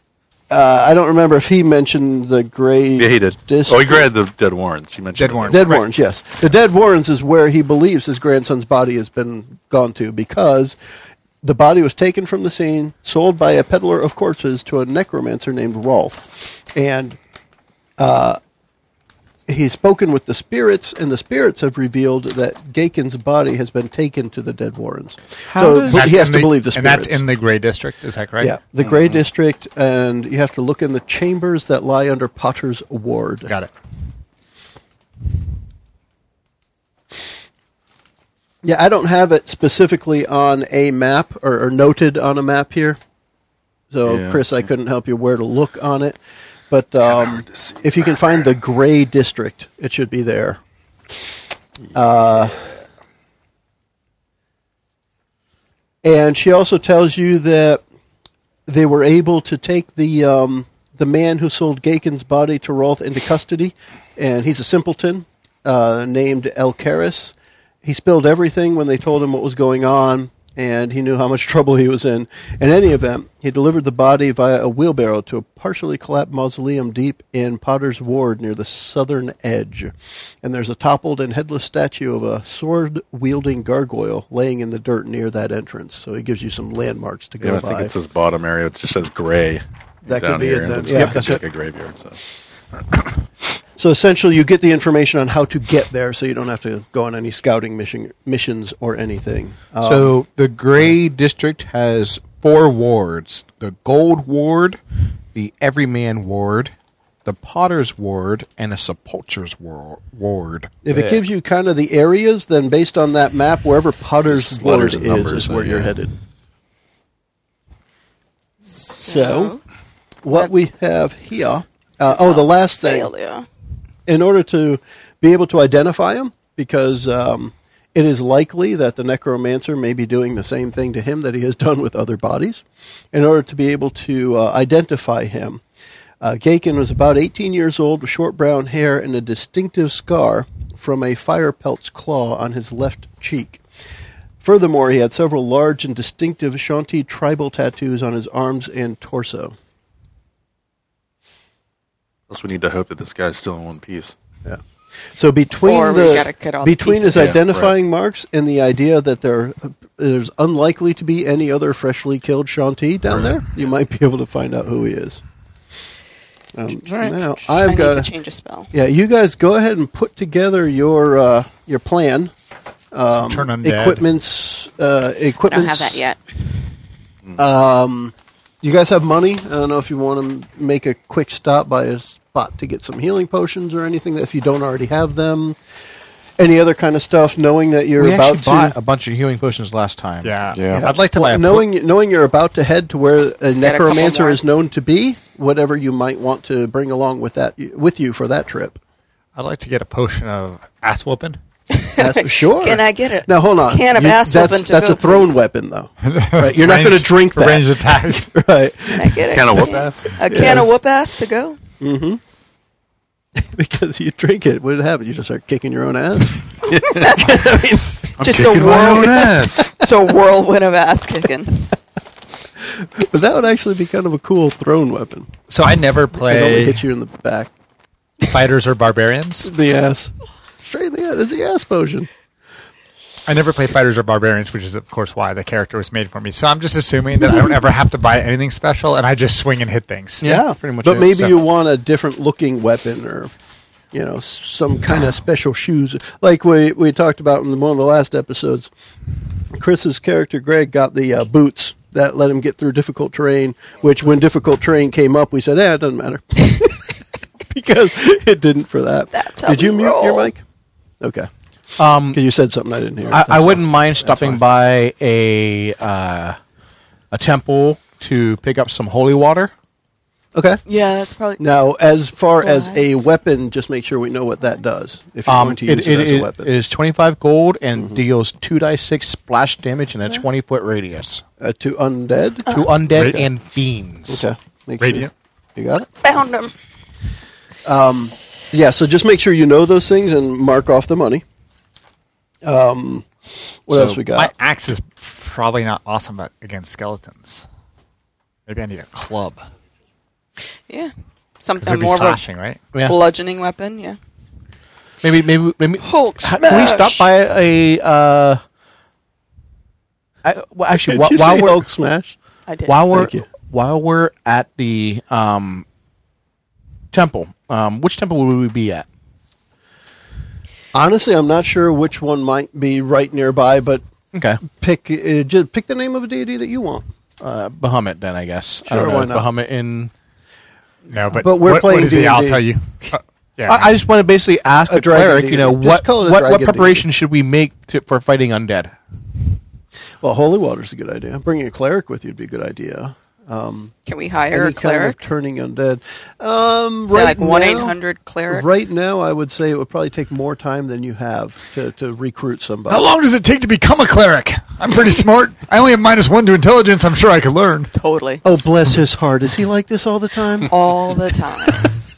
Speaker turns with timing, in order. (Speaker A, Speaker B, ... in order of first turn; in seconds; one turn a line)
Speaker A: 0.5-4.1
Speaker B: 3.0-5.7
Speaker C: 5.2-5.8
Speaker A: 5.5-10.8
Speaker A: 11.4-17.2
Speaker A: 18.0-18.4
Speaker A: 19.5-27.2
Speaker D: 25.4-26.1
Speaker C: 25.9-28.6
Speaker A: 28.4-33.5
Speaker B: 28.8-29.2
Speaker C: 33.5-33.7
Speaker A: 38.6-43.0
Speaker A: 43.9-46.2
Speaker B: 44.1-44.4
Speaker A: 46.7-50.6
Speaker B: 47.1-48.1
Speaker A: 51.1-51.4
Speaker A: 51.9-52.8
Speaker A: 56.0-57.8
Speaker A: 58.6-87.9
Speaker B: 87.4-92.2
Speaker A: 90.1-91.4
Speaker D: 90.9-91.4
Speaker B: 92.8-93.0
Speaker A: 93.8-100.1
Speaker D: 99.8-104.8
Speaker D: 105.3-106.7
Speaker D: 107.2-111.2
Speaker A: 110.8-116.1
Speaker B: 114.3-115.9
Speaker E: 118.8-119.6
Speaker A: 118.9-119.5
Speaker A: 120.2-123.1
Speaker E: 122.1-123.5
Speaker A: 124.1-135.6
Speaker A: 136.2-143.6
Speaker A: 144.4-149.6
Speaker B: 152.3-154.1
Speaker A: 155.1-165.2
Speaker E: 155.6-157.4
Speaker B: 157.2-157.7
Speaker A: 166.6-168.1
Speaker D: 166.8-167.3
Speaker E: 167.6-168.7
Speaker A: 168.7-172.3
Speaker A: 172.9-176.0
Speaker C: 173.2-174.0
Speaker E: 175.4-176.4
Speaker A: 177.4-185.6
Speaker A: 186.4-188.8
Speaker D: 188.0-190.8
Speaker C: 190.2-191.7
Speaker A: 190.7-198.8
Speaker E: 193.5-194.4
Speaker C: 199.3-201.4
Speaker E: 201.7-205.4
Speaker A: 202.0-209.7
Speaker C: 206.0-208.3
Speaker E: 208.9-211.6
Speaker B: 209.3-210.2
Speaker A: 210.2-210.7
Speaker A: 211.8-212.2
Speaker A: 213.4-218.1
Speaker B: 216.7-217.3
Speaker B: 218.2-219.7
Speaker E: 218.2-221.6
Speaker A: 218.7-219.6
Speaker A: 222.6-225.3
Speaker C: 225.5-226.8
Speaker A: 226.1-227.5
Speaker C: 228.2-229.5
Speaker A: 229.4-232.1
Speaker C: 233.3-240.3
Speaker D: 240.2-241.4
Speaker A: 240.2-243.3
Speaker A: 243.9-248.7
Speaker A: 249.5-260.4
Speaker E: 259.1-260.3
Speaker A: 261.0-261.3
Speaker D: 261.8-262.2
Speaker A: 262.1-264.4
Speaker D: 263.1-266.4
Speaker D: 267.1-269.5
Speaker A: 270.4-270.6
Speaker E: 270.6-271.4
Speaker A: 271.4-276.5
Speaker E: 272.4-272.9
Speaker D: 275.3-281.2
Speaker A: 281.4-282.5
Speaker D: 282.5-284.3
Speaker C: 282.9-283.2
Speaker A: 284.1-285.9
Speaker C: 284.8-285.1
Speaker E: 286.0-286.5
Speaker A: 287.6-291.2
Speaker A: 292.4-294.3
Speaker D: 293.7-294.0
Speaker C: 294.1-297.4
Speaker C: 298.5-299.4
Speaker E: 300.7-302.2
Speaker C: 301.6-302.6
Speaker D: 302.7-303.0
Speaker E: 302.8-304.0
Speaker D: 305.0-308.4
Speaker E: 305.8-307.1
Speaker D: 310.2-311.6
Speaker A: 310.7-312.1
Speaker E: 312.5-312.8
Speaker D: 312.7-315.6
Speaker A: 312.9-313.2
Speaker D: 316.9-318.9
Speaker A: 320.7-323.8
Speaker D: 324.1-324.4
Speaker A: 324.4-326.9
Speaker D: 327.2-329.9
Speaker A: 328.6-329.3
Speaker C: 330.9-333.8
Speaker A: 331.1-332.4
Speaker D: 333.5-338.8
Speaker A: 334.6-336.9
Speaker A: 340.0-343.7
Speaker E: 343.9-345.0
Speaker A: 344.3-347.8
Speaker E: 346.9-348.5
Speaker A: 348.3-352.9
Speaker C: 352.7-357.7
Speaker E: 357.8-358.2
Speaker A: 358.2-360.5
Speaker E: 360.5-361.6